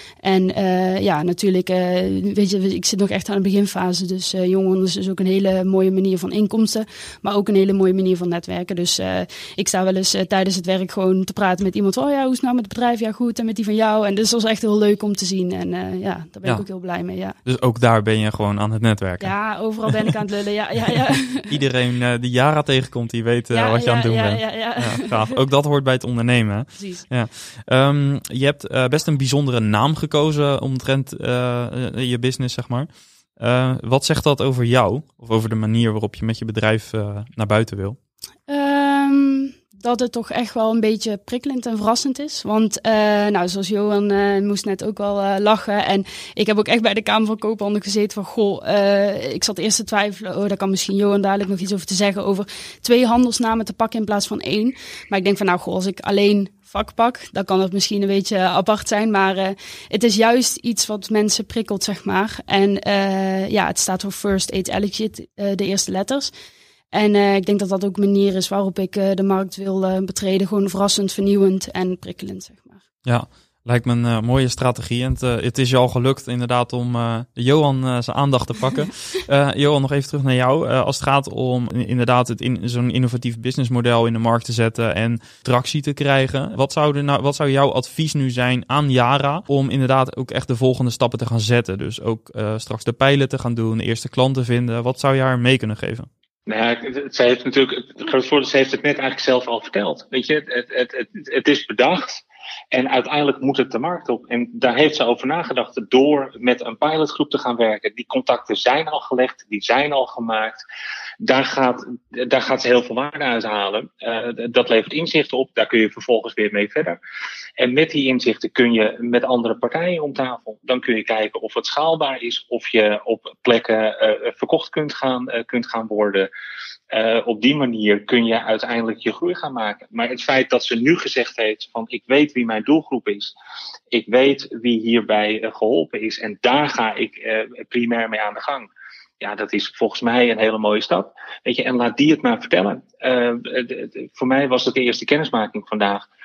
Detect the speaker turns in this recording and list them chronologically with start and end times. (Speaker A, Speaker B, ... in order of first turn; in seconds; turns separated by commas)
Speaker A: 0.2-17.4, Speaker B: 17.4-19.3, Speaker A: 19.2-21.5, Speaker B: 20.9-38.0, Speaker A: 23.5-25.3, Speaker A: 26.8-27.1, Speaker A: 38.5-66.3, Speaker A: 66.9-72.8, Speaker B: 73.0-96.1, Speaker C: 96.5-110.6, Speaker C: 111.2-117.0, Speaker C: 117.6-126.3, Speaker C: 126.9-133.3, Speaker C: 133.9-138.7, Speaker C: 139.2-146.1